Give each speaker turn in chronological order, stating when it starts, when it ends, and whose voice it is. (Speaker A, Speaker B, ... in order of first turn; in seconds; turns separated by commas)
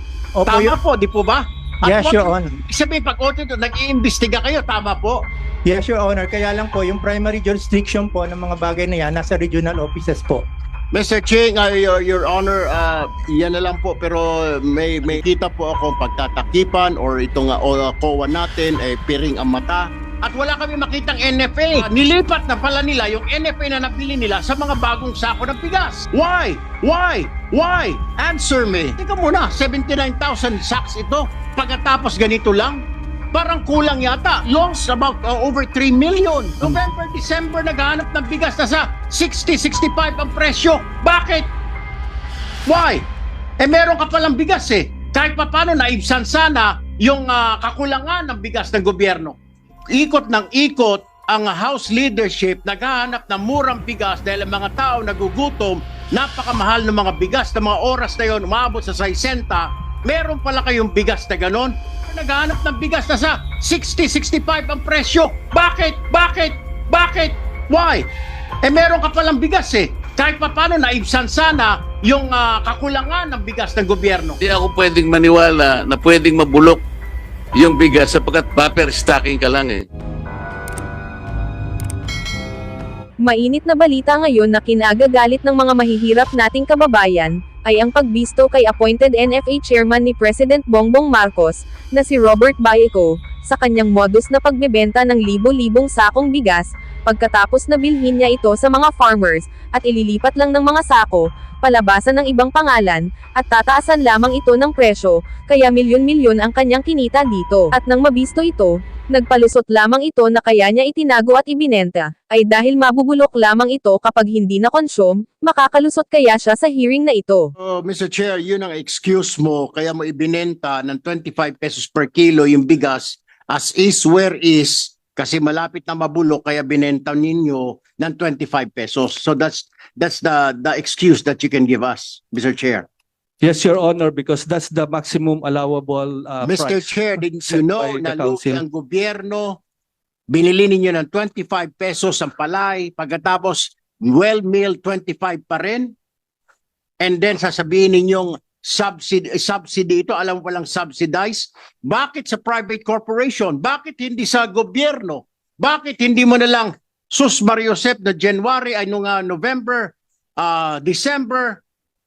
Speaker A: 0.3-0.8, Speaker B: 0.5-5.2, Speaker A: 1.8-2.6, Speaker A: 5.7-10.4, Speaker B: 10.9-41.5, Speaker B: 42.7-43.0, Speaker B: 43.6-49.4, Speaker B: 49.9-68.1, Speaker B: 68.6-74.4, Speaker C: 74.4-76.8, Speaker C: 77.6-79.9, Speaker D: 83.2-117.5, Speaker B: 117.6-132.9, Speaker E: 133.4-138.6, Speaker B: 136.4-139.6, Speaker B: 140.3-145.9, Speaker B: 147.0-161.6